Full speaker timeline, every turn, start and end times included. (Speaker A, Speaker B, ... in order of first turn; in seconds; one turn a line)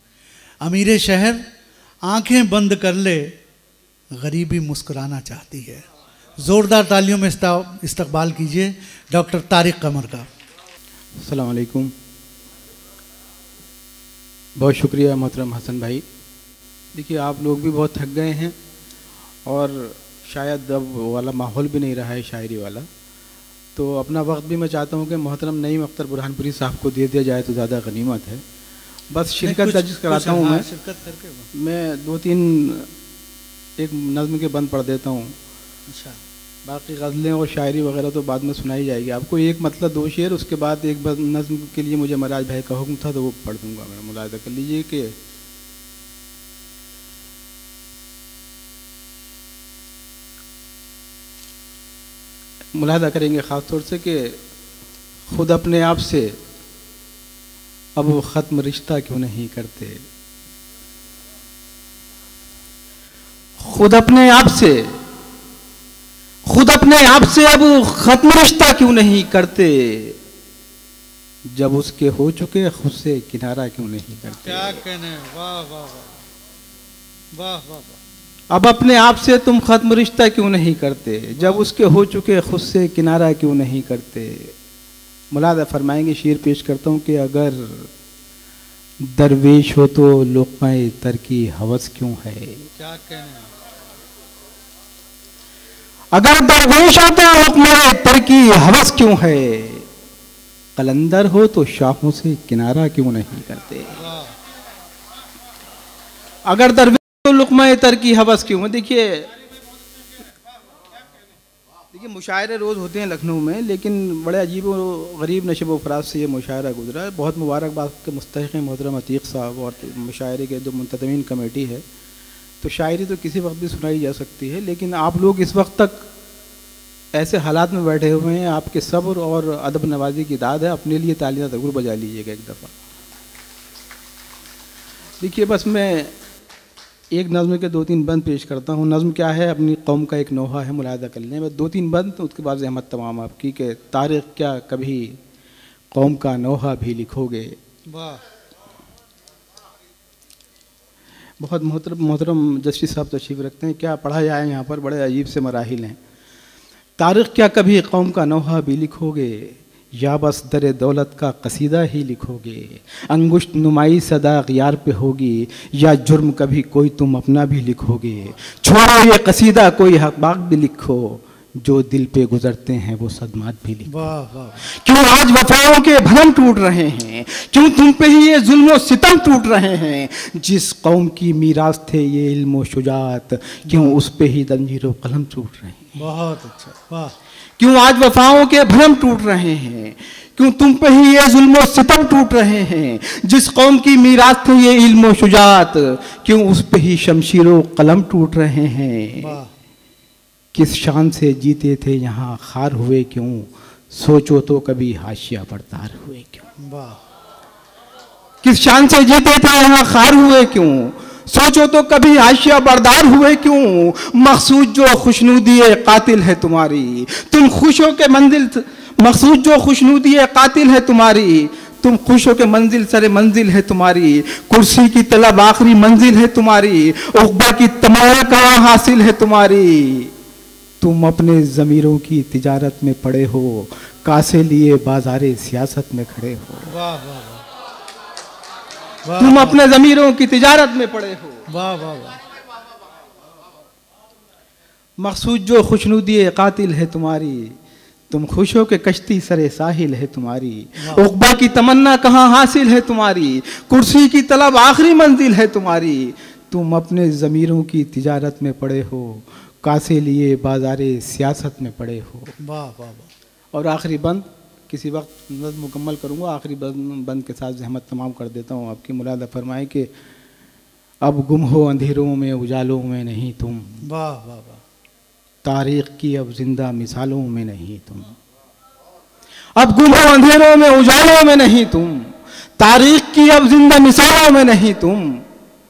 Speaker A: 0.6-1.4
Speaker A: 2.0-3.3
Speaker A: 4.2-5.8
Speaker A: 6.4-10.3
Speaker B: 11.2-11.9
Speaker B: 14.6-16.0
Speaker B: 16.9-18.6
Speaker B: 19.5-22.9
Speaker B: 23.7-28.4
Speaker B: 29.1-30.7
Speaker A: 29.4-31.5
Speaker B: 31.6-32.9
Speaker B: 33.8-35.3
Speaker A: 35.9-36.2
Speaker B: 36.6-45.1
Speaker B: 52.7-54.4
Speaker B: 55.3-56.3
Speaker B: 58.0-60.0
Speaker B: 63.6-64.9
Speaker B: 66.5-70.2
Speaker B: 71.5-74.8
Speaker A: 74.4-76.2
Speaker A: 77.3-78.0
Speaker B: 78.5-84.5
Speaker A: 81.3-81.6
Speaker B: 85.3-87.9
Speaker B: 89.0-92.6
Speaker A: 92.8-93.5
Speaker B: 96.1-99.9
Speaker B: 100.8-104.0
Speaker A: 103.9-104.3
Speaker B: 106.5-109.3
Speaker B: 111.9-121.8
Speaker B: 122.6-126.1
Speaker B: 127.1-132.7
Speaker B: 135.2-136.1
Speaker B: 137.1-145.2
Speaker B: 145.9-147.6
Speaker A: 147.9-148.2
Speaker B: 151.4-156.0
Speaker B: 157.0-173.9
Speaker A: 173.9-174.7
Speaker B: 174.6-186.0
Speaker A: 183.7-184.0
Speaker A: 186.0-187.2
Speaker B: 187.6-199.4
Speaker A: 199.2-199.5
Speaker B: 200.5-206.4
Speaker A: 206.6-207.0
Speaker B: 208.4-230.1
Speaker B: 230.8-236.7
Speaker A: 236.7-237.4
Speaker A: 239.0-239.7
Speaker B: 239.2-241.4
Speaker A: 241.5-242.2
Speaker B: 245.0-247.6
Speaker B: 248.1-262.3
Speaker A: 250.8-251.1
Speaker A: 262.4-263.1
Speaker B: 263.5-269.9
Speaker B: 271.0-273.8
Speaker A: 273.8-274.6
Speaker B: 275.4-278.1
Speaker B: 279.6-285.2